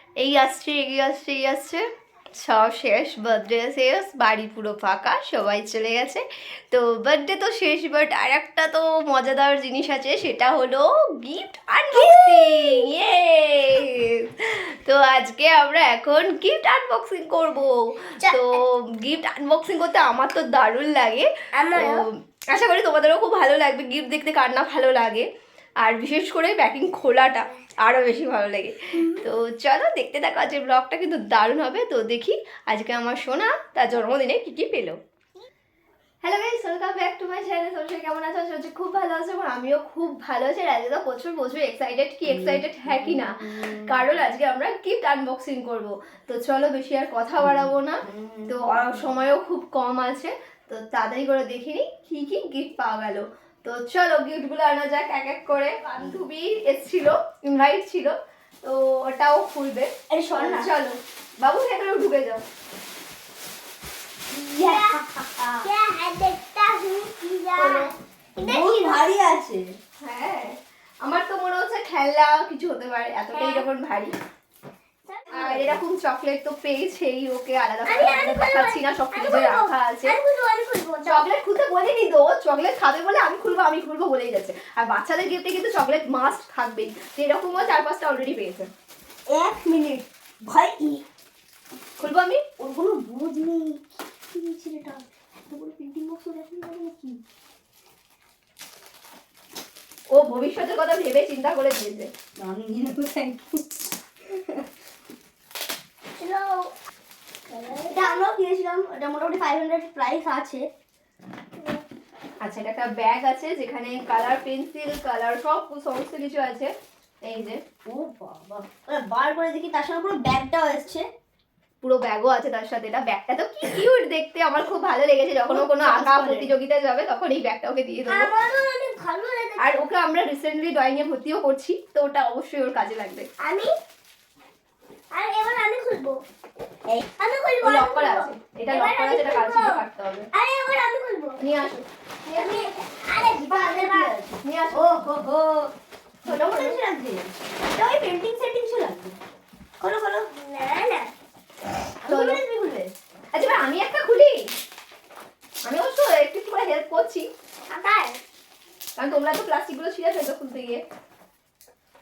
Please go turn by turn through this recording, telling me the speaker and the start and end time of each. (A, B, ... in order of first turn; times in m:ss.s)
0:00.2-0:25.3 A
0:11.9-0:12.9 B
0:18.2-0:18.6 B
0:21.6-0:22.0 B
0:25.8-0:35.0 A
0:36.2-1:02.4 A
0:42.3-0:44.0 C
0:47.4-0:49.1 C
1:00.1-1:00.7 C
1:04.3-1:05.7 C
1:04.6-1:05.0 B
1:05.6-1:09.1 B
1:07.6-1:07.9 A
1:08.4-1:09.7 C
1:10.0-1:14.1 A
1:13.3-1:13.7 B
1:15.1-1:15.8 B
1:15.3-1:20.2 A
1:17.9-1:21.3 B
1:21.1-1:28.7 A
1:29.3-1:31.0 C
1:32.0-1:32.4 A
1:32.6-1:37.2 C
1:40.1-1:42.1 A
1:42.4-1:43.6 C
1:46.2-1:46.7 B
1:47.5-1:48.2 B
1:47.9-1:50.7 C
1:51.6-1:51.8 B
1:52.4-1:56.7 A
1:57.2-1:57.6 A
1:57.9-2:01.1 C
2:01.8-2:08.3 A
2:05.5-2:06.5 C
2:08.1-2:09.8 B
2:09.6-2:13.3 A
2:13.4-2:13.7 B
2:15.1-2:16.2 B
2:17.2-2:19.8 B
2:17.6-2:20.3 A
2:20.3-2:21.4 B
2:21.4-2:21.8 A
2:22.3-2:22.7 C
2:22.3-2:24.2 B
2:23.4-2:25.7 C
2:24.4-2:25.1 A
2:26.2-2:29.2 C
2:26.3-2:26.8 B
2:29.8-2:31.1 B
2:32.0-2:32.9 C
2:32.1-2:32.4 A
2:33.3-2:34.5 A
2:35.7-2:37.3 A
2:37.7-2:38.2 B
2:39.0-2:40.8 A